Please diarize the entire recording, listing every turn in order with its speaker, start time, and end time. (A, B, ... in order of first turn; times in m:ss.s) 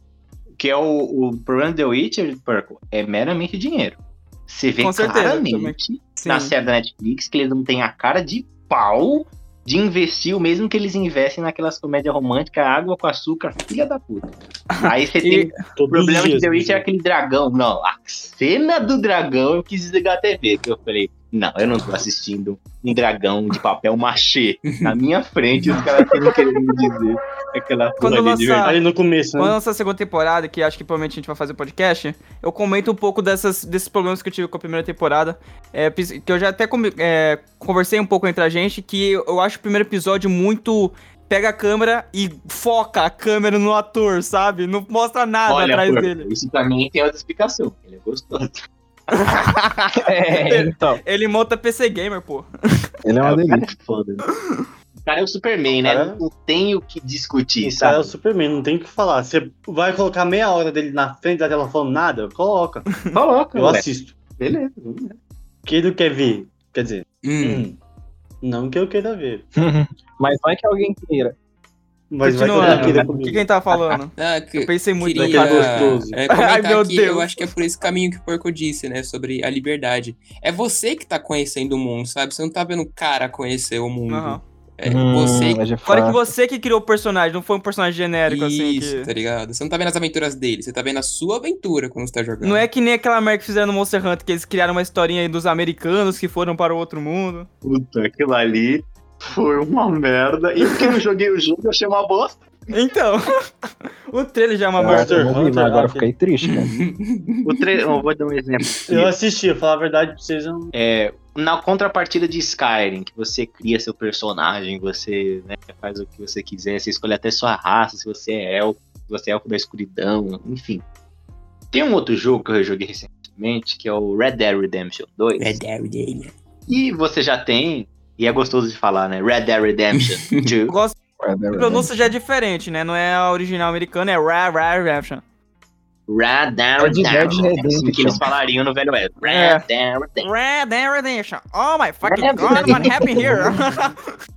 0:00.6-0:28.8 A
0:04.8-0:06.5 B
0:15.2-0:15.5 B
0:15.6-0:16.8 C
0:25.6-0:25.8 D
0:28.0-0:28.8 B
0:28.6-0:29.6 C
0:29.4-0:46.3 B
0:45.5-0:48.6 A
0:49.1-0:50.7 A
0:50.5-0:52.5 B
0:50.6-0:51.0 E
0:53.0-0:53.7 E
0:53.2-0:54.2 A
0:55.0-0:58.2 A
0:55.8-0:56.2 C
0:57.6-1:04.2 C
1:03.1-1:05.2 A
1:05.7-1:07.8 C
1:07.2-1:07.7 D
1:08.4-1:09.5 C
1:09.6-1:11.4 E
1:12.1-1:13.5 C
1:12.2-1:17.3 B
1:12.6-1:13.0 A
1:14.2-1:25.6 D
1:15.2-1:16.2 C
1:24.1-1:24.4 B
1:24.8-1:26.3 E
1:25.9-1:29.1 B
1:28.3-1:32.7 D
1:32.4-1:37.5 B
1:37.6-1:42.5 A
1:42.7-1:43.2 B
1:44.1-1:45.4 B
1:44.8-1:46.7 E
1:44.8-1:46.1 C
1:46.4-1:48.0 D
1:47.4-1:49.1 A
1:48.9-1:50.7 C
1:50.7-2:00.8 A
2:01.7-2:05.6 A
2:05.4-2:06.3 D
2:06.7-2:10.7 A
2:10.7-2:11.0 B
2:11.2-2:12.1 E
2:11.5-2:15.2 B
2:16.1-2:20.3 A
2:16.8-2:18.2 E
2:19.2-2:19.6 B
2:20.2-2:24.0 B
2:22.0-2:23.5 A